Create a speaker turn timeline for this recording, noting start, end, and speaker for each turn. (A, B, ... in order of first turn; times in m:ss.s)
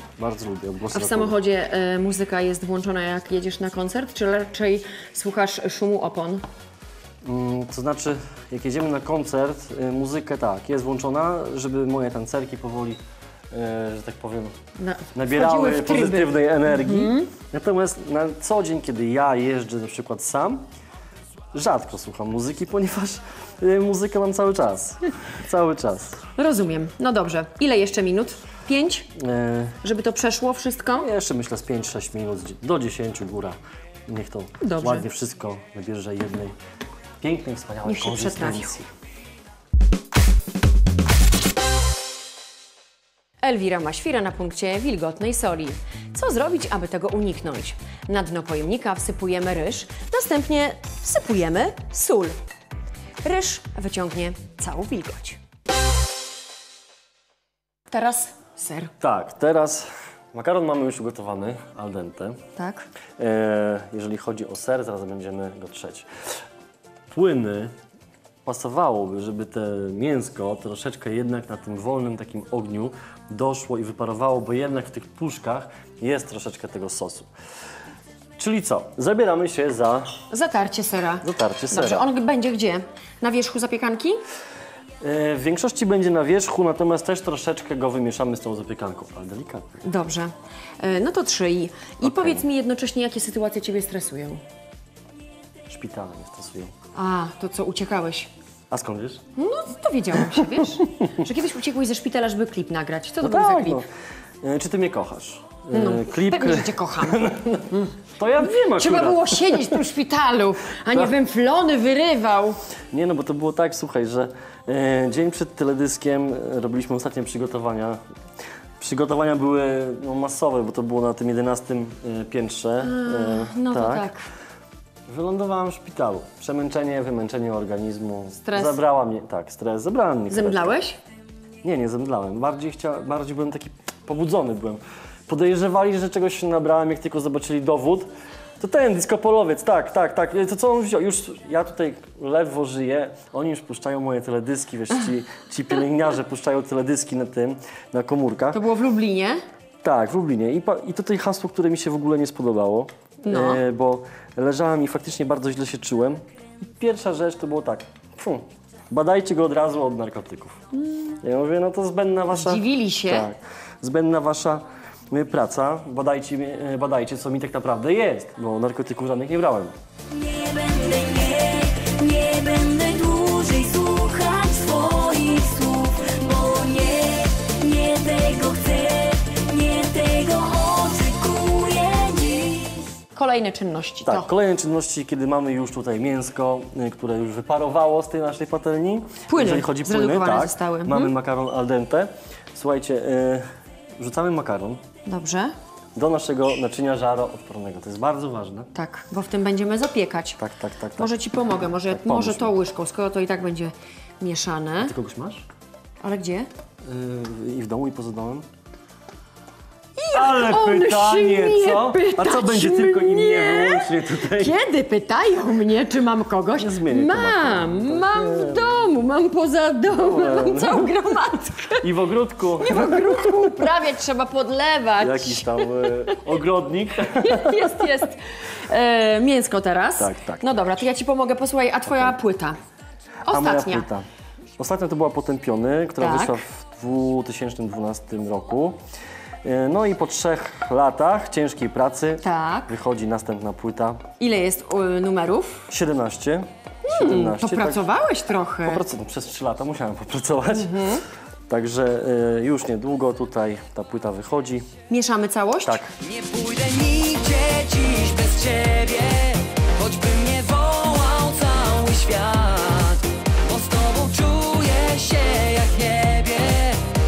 0:00.2-0:01.4 A
0:00.9-0:06.4 B
0:07.2-0:14.5 A
0:14.8-0:17.3 B
0:15.1-0:20.6 A
0:21.5-0:26.2 A
0:26.4-0:29.1 B
0:29.1-0:29.8 A
0:29.8-0:31.1 B
0:31.0-0:36.5 A
0:34.6-0:35.0 B
0:37.2-0:38.9 A
0:37.8-0:38.8 B
0:43.4-0:52.4 B
0:53.2-0:55.4 B
0:57.9-0:58.9 B
0:59.0-1:02.4 A
1:02.6-1:02.8 B
1:03.2-1:06.4 A
1:07.1-1:07.7 A
1:08.4-1:17.3 A
1:18.4-1:20.2 A
1:20.3-1:24.2 B
1:21.2-1:22.0 A
1:25.0-1:29.8 A
1:29.8-1:34.4 B
1:32.0-1:32.4 A
1:35.7-1:36.7 A
1:36.9-1:38.3 B
1:38.7-1:39.2 A
1:39.4-1:43.8 B
1:43.2-1:43.8 A
1:44.4-1:49.8 A
1:45.7-1:52.6 B
1:52.9-1:58.0 A
1:58.8-2:04.1 A
2:02.8-2:04.3 B
2:05.1-2:10.8 A
2:08.4-2:08.8 B
2:10.3-2:11.0 B
2:11.6-2:28.6 A
2:28.5-2:29.4 B
2:29.8-2:40.6 A
2:33.2-2:33.6 B
2:41.2-2:49.7 A
2:42.3-2:43.3 B
2:50.1-3:02.9 C
3:03.1-3:04.3 B
3:04.0-3:14.8 A
3:09.3-3:11.1 B
3:15.0-3:15.5 B
3:15.9-3:18.7 A
3:18.7-3:20.4 B
3:20.4-3:21.1 A
3:21.0-3:24.9 B
3:21.9-3:22.5 A
3:24.8-3:25.5 A
3:26.0-3:26.5 B
3:26.8-3:28.5 A
3:30.0-3:41.9 B
3:30.1-3:34.6 A
3:36.6-3:38.8 A
3:39.9-3:40.9 A
3:41.8-3:43.7 A
3:42.6-3:46.4 B
3:45.0-3:48.0 A
3:47.1-3:52.6 B
3:50.0-3:50.4 A
3:51.8-3:52.2 A
3:53.2-3:53.9 B
3:53.3-3:54.0 A
3:54.6-3:58.8 A
3:56.0-3:56.4 B
3:59.4-4:04.0 A
4:02.2-4:02.7 B
4:04.2-4:05.6 B
4:05.7-4:07.9 A
4:06.8-4:08.8 B
4:08.6-4:10.9 A
4:10.5-4:11.0 B
4:11.5-4:14.7 A
4:14.9-4:15.8 B
4:15.6-4:15.9 A
4:16.0-4:26.8 C